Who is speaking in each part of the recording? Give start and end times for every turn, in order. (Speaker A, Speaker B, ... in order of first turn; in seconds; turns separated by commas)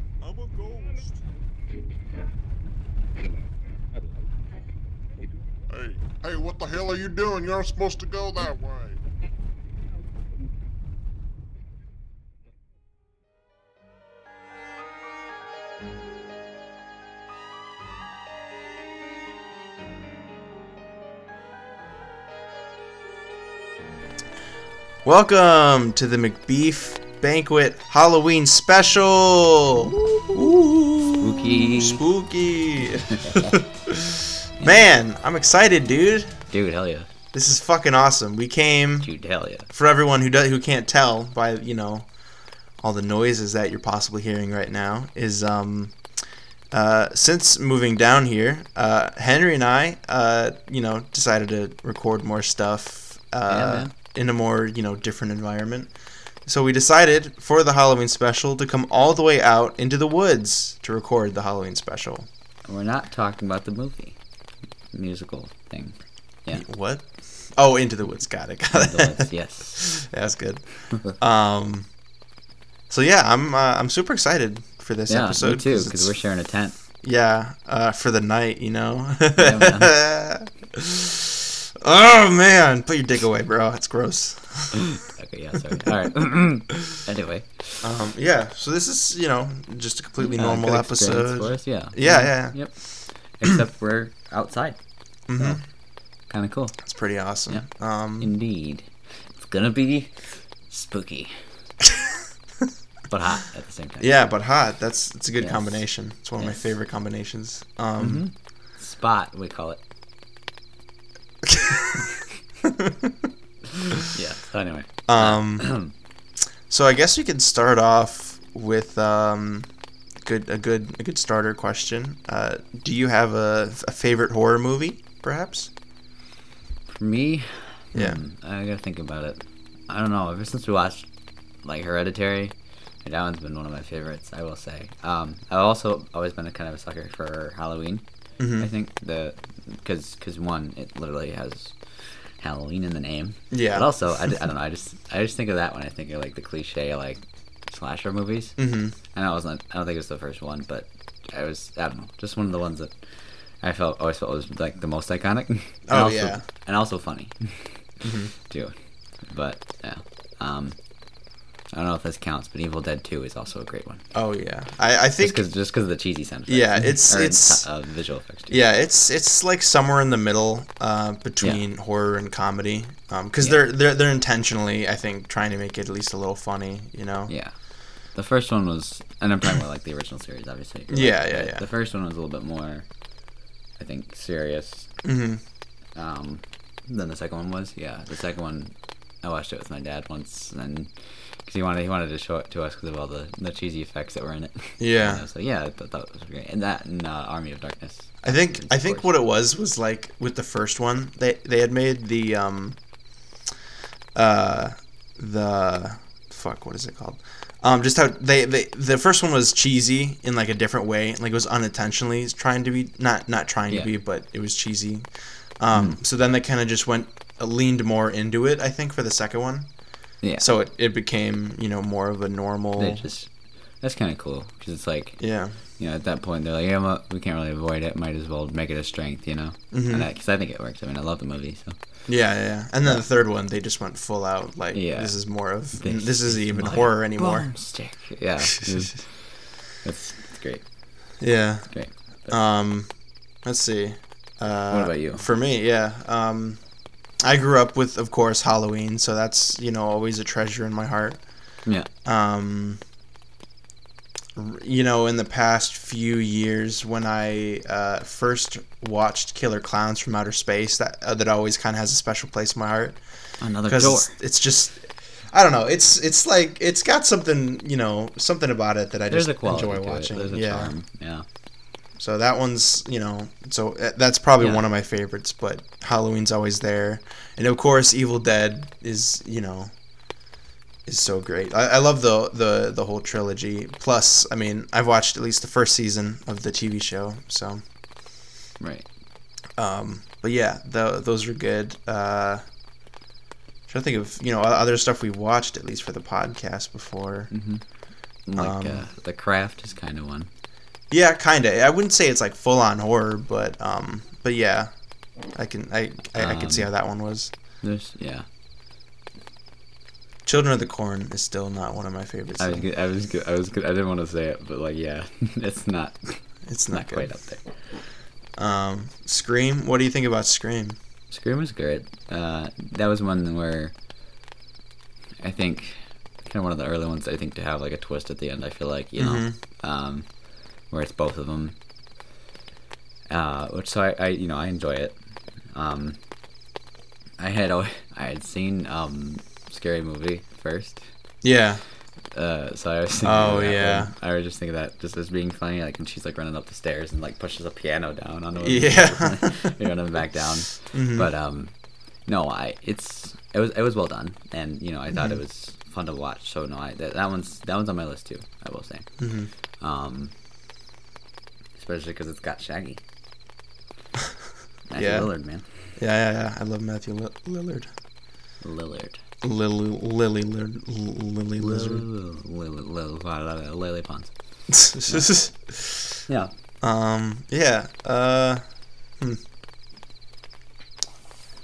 Speaker A: 0.2-1.1, Speaker A: 5.7-9.0, Speaker B: 25.0-36.3, Speaker C: 31.2-32.0, Speaker C: 33.1-33.6, Speaker C: 36.5-37.1, Speaker B: 37.3-39.1, Speaker C: 39.0-39.7, Speaker B: 39.7-42.0, Speaker B: 42.8-45.9, Speaker B: 46.7-55.9, Speaker C: 53.5-53.9, Speaker B: 56.5-62.3, Speaker C: 62.6-64.2, Speaker C: 64.9-66.7, Speaker B: 66.5-71.9, Speaker C: 68.7-70.0, Speaker B: 72.9-76.1, Speaker C: 75.1-76.8, Speaker B: 77.0-84.8, Speaker C: 79.3-79.9, Speaker C: 84.9-87.8, Speaker B: 87.8-92.7, Speaker C: 90.2-92.8, Speaker C: 93.3-94.8, Speaker B: 95.3-95.6, Speaker C: 96.3-96.8, Speaker B: 96.8-98.3, Speaker C: 98.2-100.1, Speaker C: 100.7-101.3, Speaker B: 101.8-102.1, Speaker C: 103.1-104.1, Speaker B: 104.0-108.2, Speaker C: 105.4-105.8, Speaker C: 108.0-109.8, Speaker B: 111.4-113.3, Speaker C: 114.1-115.9, Speaker B: 115.1-115.7, Speaker B: 116.7-119.7, Speaker B: 120.2-125.7, Speaker C: 126.9-131.1, Speaker B: 127.9-128.2, Speaker C: 131.6-138.0, Speaker B: 138.4-138.7, Speaker C: 138.6-148.6, Speaker B: 143.5-143.9, Speaker B: 148.6-148.9, Speaker C: 149.1-152.9, Speaker C: 153.6-157.6, Speaker B: 155.9-156.4, Speaker B: 158.0-158.3, Speaker C: 158.5-158.7, Speaker C: 159.3-160.8, Speaker C: 161.7-164.0, Speaker B: 164.1-165.4, Speaker C: 165.2-168.6, Speaker B: 166.5-167.6, Speaker B: 168.5-177.3, Speaker C: 177.3-177.5, Speaker C: 178.1-182.8, Speaker B: 180.9-181.6, Speaker C: 183.8-184.9, Speaker B: 185.0-185.4, Speaker C: 185.9-190.9, Speaker C: 191.4-199.1, Speaker B: 194.8-195.2, Speaker B: 198.2-202.8, Speaker B: 204.1-215.1, Speaker B: 215.6-219.7, Speaker C: 215.7-216.0, Speaker C: 220.2-220.5, Speaker B: 220.4-223.1, Speaker C: 222.8-223.3, Speaker C: 223.8-225.2, Speaker B: 225.2-225.6, Speaker C: 225.8-231.8, Speaker B: 229.7-230.1, Speaker B: 232.1-237.5, Speaker C: 234.7-235.1, Speaker C: 235.8-239.2, Speaker C: 239.8-240.6, Speaker B: 241.2-241.7, Speaker C: 241.7-242.4, Speaker B: 242.3-242.9, Speaker B: 243.4-246.6, Speaker C: 244.7-245.2, Speaker B: 247.2-251.2, Speaker B: 252.0-252.8, Speaker B: 254.3-263.0, Speaker C: 263.4-264.1, Speaker B: 263.7-270.7, Speaker C: 269.1-271.2, Speaker B: 272.0-279.7, Speaker B: 280.9-287.6, Speaker C: 288.6-288.9, Speaker B: 289.6-292.4, Speaker B: 293.7-297.3, Speaker C: 297.3-297.6, Speaker C: 298.2-300.3, Speaker B: 298.4-298.8, Speaker B: 300.9-304.7, Speaker B: 305.3-307.3, Speaker C: 306.1-306.7, Speaker C: 307.6-308.2, Speaker B: 310.2-312.6, Speaker C: 312.4-317.4, Speaker B: 316.4-317.1, Speaker B: 318.4-320.8, Speaker C: 321.1-323.7, Speaker C: 325.2-330.1, Speaker B: 329.0-329.4, Speaker C: 330.7-331.6, Speaker C: 333.1-335.0, Speaker C: 335.5-336.0, Speaker C: 337.2-340.8, Speaker B: 341.2-341.6, Speaker C: 342.1-351.5, Speaker B: 343.0-343.9, Speaker B: 348.4-349.5, Speaker B: 350.7-351.1, Speaker C: 352.1-358.9, Speaker B: 359.0-359.3, Speaker C: 359.6-360.1, Speaker C: 361.6-362.8, Speaker C: 364.7-365.4, Speaker B: 364.8-365.1, Speaker B: 365.8-367.7, Speaker C: 368.4-369.0, Speaker B: 369.2-371.8, Speaker C: 371.4-374.1, Speaker B: 374.5-375.9, Speaker C: 374.9-375.1, Speaker B: 376.6-378.4